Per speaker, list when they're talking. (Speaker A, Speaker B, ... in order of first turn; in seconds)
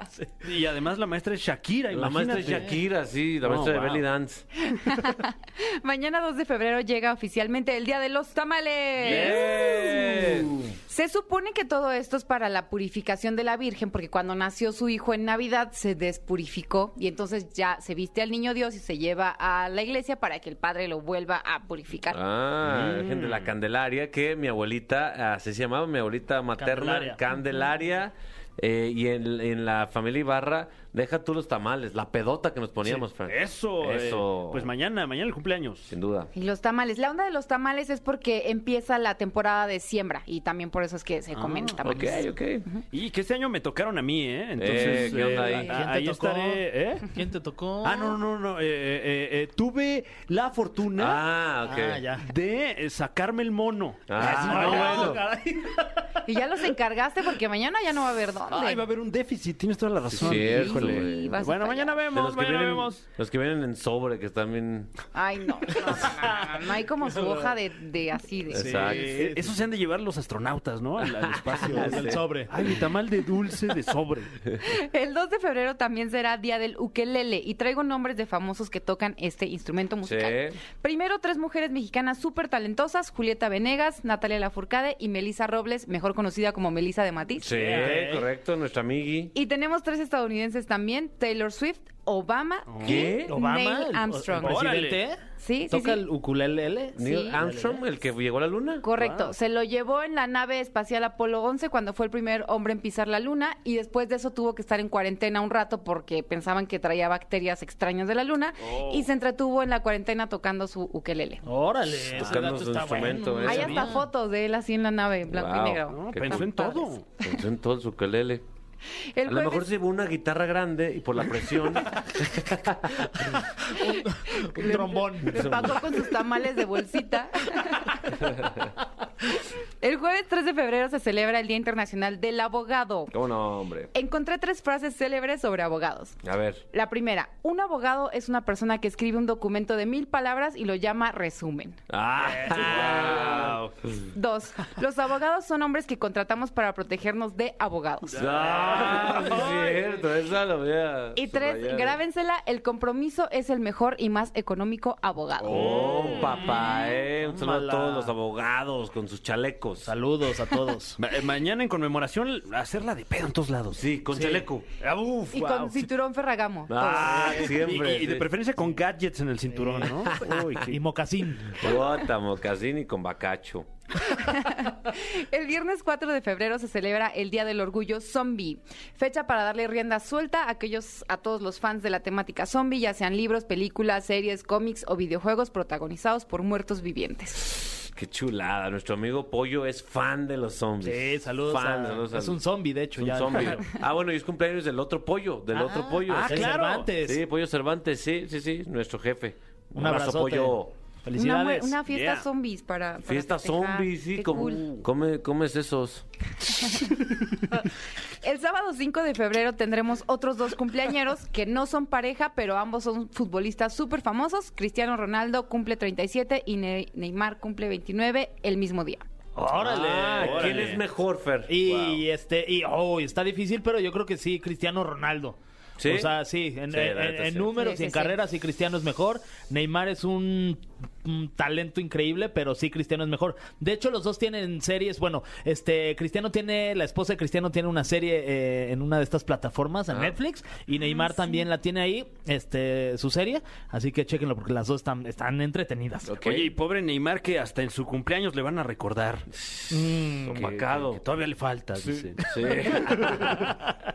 Speaker A: 0.4-2.8, 3.4-4.1, 9.1-9.5, 22.7-23.5, 32.9-35.9, 41.4-41.8, 42.9-47.0, 47.8-51.2, 52.2-55.2, 58.5-63.0, 68.6-74.3, 92.7-93.2, 94.4-95.0, 99.0-99.3, 108.6-109.1, 115.9-117.0, 142.3-143.7, 148.2-149.7, 155.4-156.4, 161.0-164.3, 164.8-165.8, 166.9-170.8, 196.1-196.9, 201.9-202.2, 220.2-220.8, 246.2-249.3, 250.4-253.2
Speaker B: 1.9-4.4, 9.0-10.6, 22.1-34.7, 35.9-36.3, 41.8-42.6, 44.6-45.8, 51.0-52.0, 54.1-55.2, 60.1-61.4, 62.1-64.9, 68.5-69.1, 71.3-72.2, 80.0-80.6, 87.4-89.3, 92.8-93.3, 97.0-98.8, 112.1-113.9, 115.3-118.4, 119.3-123.4, 125.3-125.8, 133.1-133.9, 136.2-136.6, 141.9-143.6, 148.1-152.0, 155.5-159.9, 163.7-164.7, 166.7-168.3, 169.8-170.6, 171.6-173.7, 187.9-192.4, 193.0-200.7, 203.1-206.1, 219.6-222.0, 225.8-226.1, 226.7-227.5, 246.1-246.5, 249.3-251.0, 252.2-253.5
Speaker C: 4.6-22.2, 36.4-42.8, 44.9-45.4, 56.3-58.8, 60.4-62.0, 65.1-68.8, 74.6-87.7, 89.3-94.7, 95.4-96.0, 97.0-97.4, 98.8-111.4, 113.5-117.3, 119.2-119.7, 123.8-128.1, 129.8-133.1, 133.9-136.2, 136.7-141.8, 144.1-148.2, 151.2-155.6, 165.3-167.5, 174.1-187.6, 201.2-204.7, 208.2-219.0, 227.6-228.2, 240.8-241.4
Speaker D: 26.6-27.2, 45.4-48.2, 51.6-52.3, 54.2-56.2, 68.8-69.5, 71.7-72.5, 87.5-88.3, 93.3-95.2, 95.7-97.8, 111.5-114.0, 123.7-125.5, 142.4-143.3, 155.8-158.1, 159.8-161.0, 170.7-171.6, 190.8-193.6, 195.5-197.2, 199.8-201.8, 219.4-220.7, 221.5-246.1, 249.7-250.5